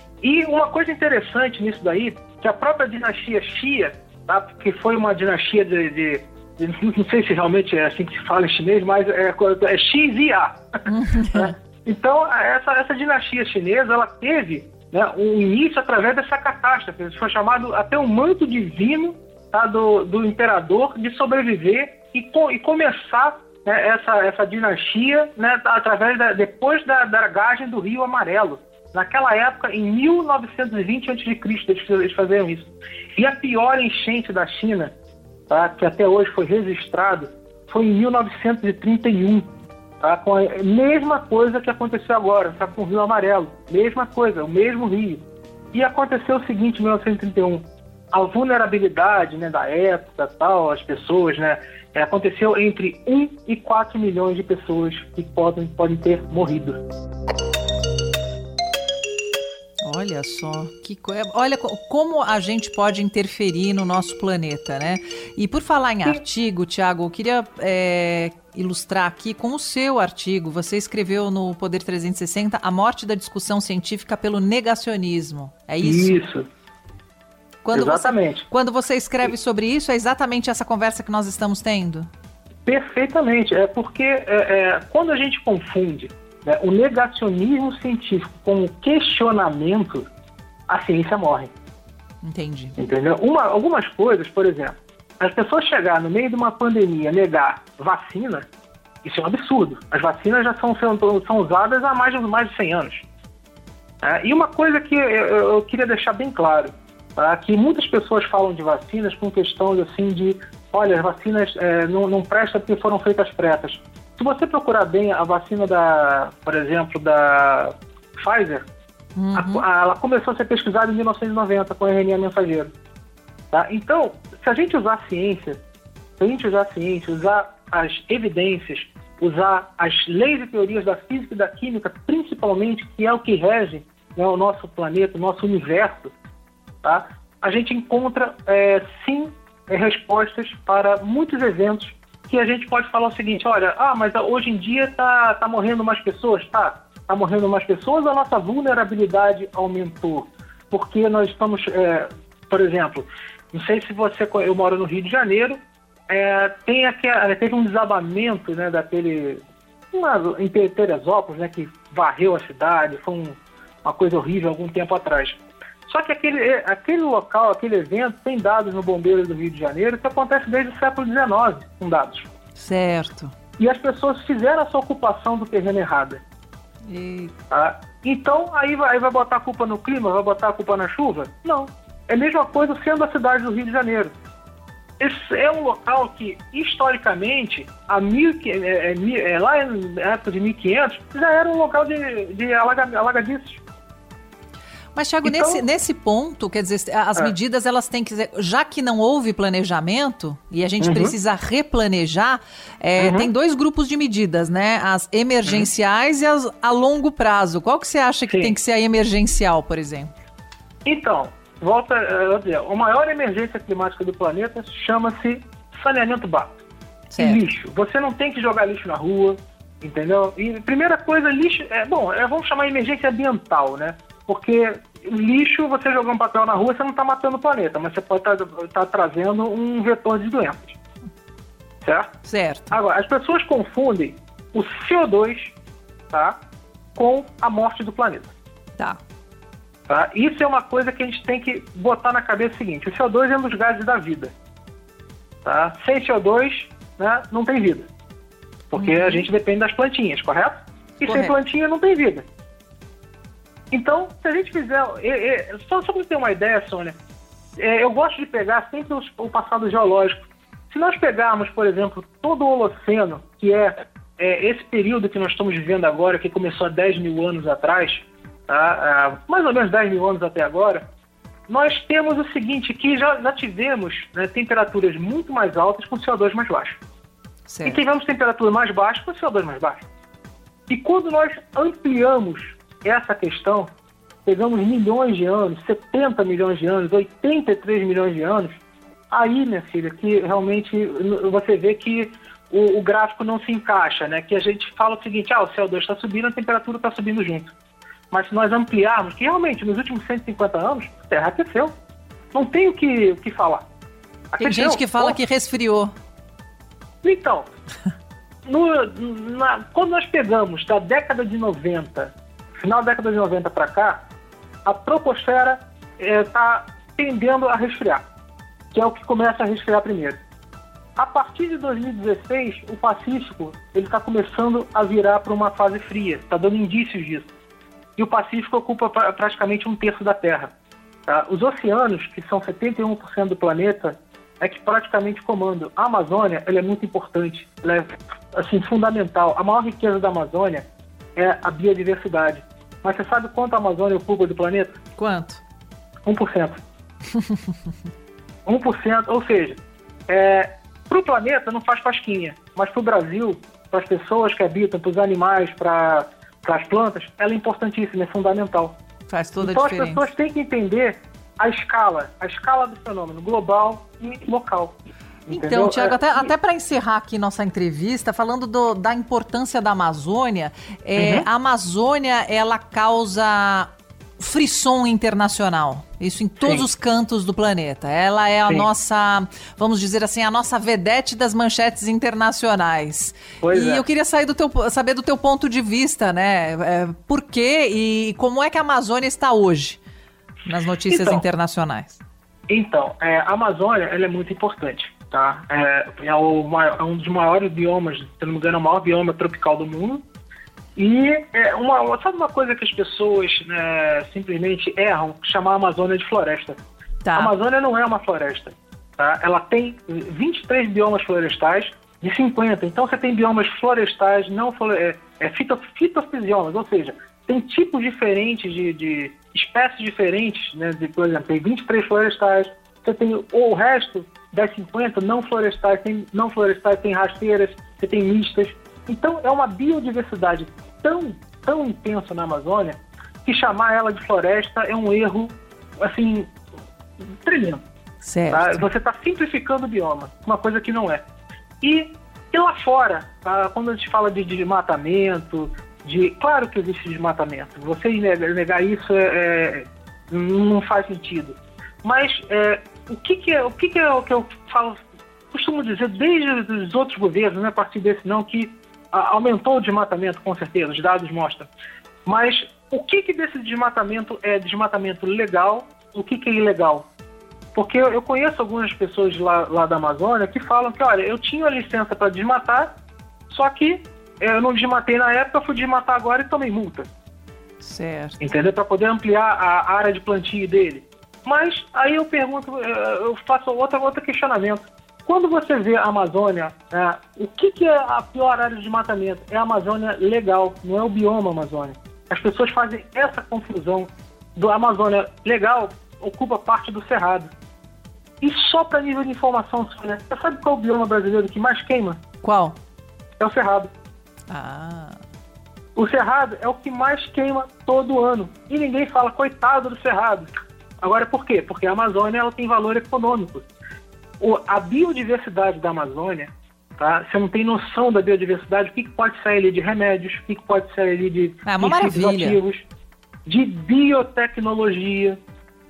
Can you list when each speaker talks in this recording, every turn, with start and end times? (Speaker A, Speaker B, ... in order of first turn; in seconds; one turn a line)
Speaker A: 0.2-10.6
Speaker B: 10.9-11.5
Speaker A: 11.3-34.9
Speaker A: 35.5-39.5
Speaker A: 40.0-56.8
Speaker B: 59.8-76.2
Speaker A: 75.8-76.5
Speaker B: 77.6-82.1
Speaker A: 77.7-78.5
Speaker A: 82.7-90.1
Speaker A: 90.7-91.5
Speaker B: 92.2-92.8
Speaker A: 92.8-98.5
Speaker A: 99.0-103.0
Speaker A: 104.0-118.7
Speaker B: 119.2-119.7
Speaker A: 119.3-122.7
Speaker A: 123.5-125.6
Speaker A: 126.2-136.1
Speaker A: 136.8-159.4
Speaker A: 159.9-172.3
Speaker B: 172.6-173.3
Speaker A: 173.6-176.2
Speaker B: 176.9-177.3
Speaker A: 177.5-184.1
Speaker A: 185.0-193.6
Speaker B: 194.9-210.1
Speaker A: 195.2-195.6
Speaker A: 200.8-201.2
Speaker A: 203.0-203.3
Speaker A: 208.3-208.6
Speaker A: 210.8-216.6
Speaker B: 217.1-217.4
Speaker A: 217.2-230.8
Speaker A: 231.8-232.1
Speaker B: 232.3-232.8
Speaker A: 232.7-235.5
Speaker A: 237.0-238.3
Speaker A: 239.9-244.3
Speaker A: 245.4-247.9
Speaker A: 248.7-252.3
Speaker B: 248.8-249.3
Speaker B: 251.0-251.3
Speaker A: 253.7-257.0
Speaker A: 257.6-270.9
Speaker A: 271.5-276.8
Speaker B: 277.5-277.8
Speaker A: 277.6-279.8
Speaker A: 280.7-283.7
Speaker A: 284.3-288.6
Speaker A: 289.1-297.5
Speaker A: 298.1-301.7
Speaker A: 302.3-303.6
Speaker A: 304.3-305.2
Speaker B: 304.4-305.9
Speaker A: 307.0-307.5
Speaker A: 308.5-314.0
Speaker A: 314.7-318.0
Speaker A: 318.7-320.2
Speaker A: 321.0-327.3
Speaker A: 328.0-330.5
Speaker A: 331.1-340.6
Speaker A: 341.2-344.8
Speaker B: 345.0-345.4
Speaker A: 346.1-346.6
Speaker A: 348.5-358.8
Speaker B: 359.1-360.1
Speaker A: 359.4-364.8
Speaker B: 365.3-389.8
Speaker A: 365.3-366.3
Speaker A: 371.0-371.3
Speaker A: 383.4-383.9
Speaker B: 390.5-392.0
Speaker A: 390.9-391.2
Speaker A: 392.5-400.0
Speaker A: 400.8-406.6
Speaker B: 407.0-407.3
Speaker A: 407.1-436.3
Speaker A: 437.2-437.6
Speaker B: 438.0-438.7
Speaker A: 438.3-441.0
Speaker A: 441.6-454.8
Speaker A: 455.3-461.5
Speaker A: 462.1-466.9
Speaker A: 467.6-472.7
Speaker A: 473.3-476.9
Speaker B: 477.6-478.2
Speaker A: 478.2-497.3
Speaker A: 498.2-502.0
Speaker B: 502.2-502.6
Speaker A: 503.2-503.7
Speaker B: 504.3-505.0
Speaker A: 505.8-510.3
Speaker A: 510.8-513.5
Speaker A: 514.2-522.6
Speaker B: 521.5-522.4
Speaker A: 523.3-525.2